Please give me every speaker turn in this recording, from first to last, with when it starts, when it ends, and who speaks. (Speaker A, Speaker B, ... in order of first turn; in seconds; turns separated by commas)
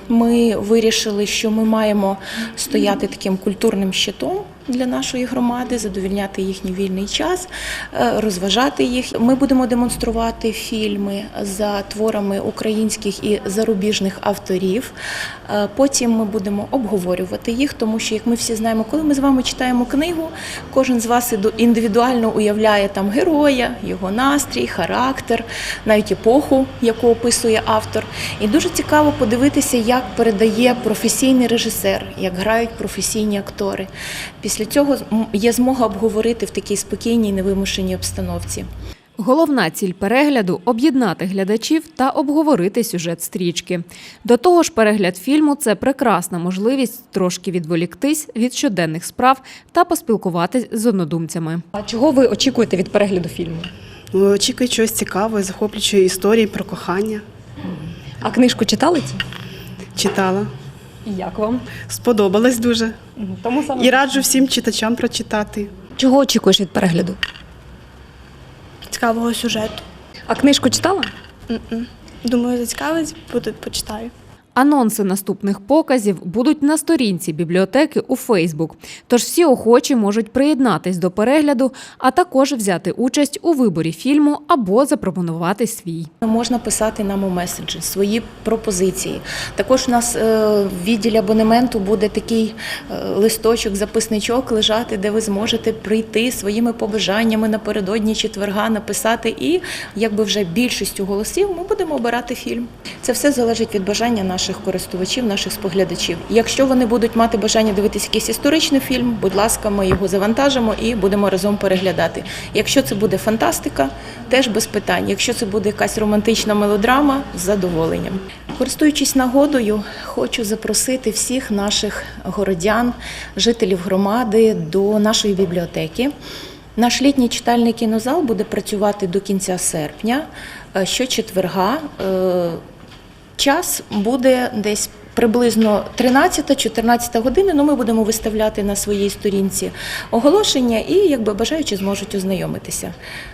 Speaker A: 0.1-14.9, Speaker A: 15.5-33.9, Speaker A: 34.4-38.7, Speaker B: 39.2-51.6, Speaker C: 51.8-53.7, Speaker D: 54.1-57.2, Speaker C: 58.2-59.2, Speaker D: 60.0-60.5, Speaker C: 61.1-61.6, Speaker D: 61.9-63.0, Speaker C: 63.2-64.1, Speaker D: 63.8-65.7, Speaker C: 66.0-67.2, Speaker E: 68.9-69.8, Speaker C: 70.3-71.1, Speaker E: 71.5-74.1, Speaker B: 74.6-86.1, Speaker A: 86.2-126.1, Speaker A: 126.8-132.6, Speaker A: 133.4-142.9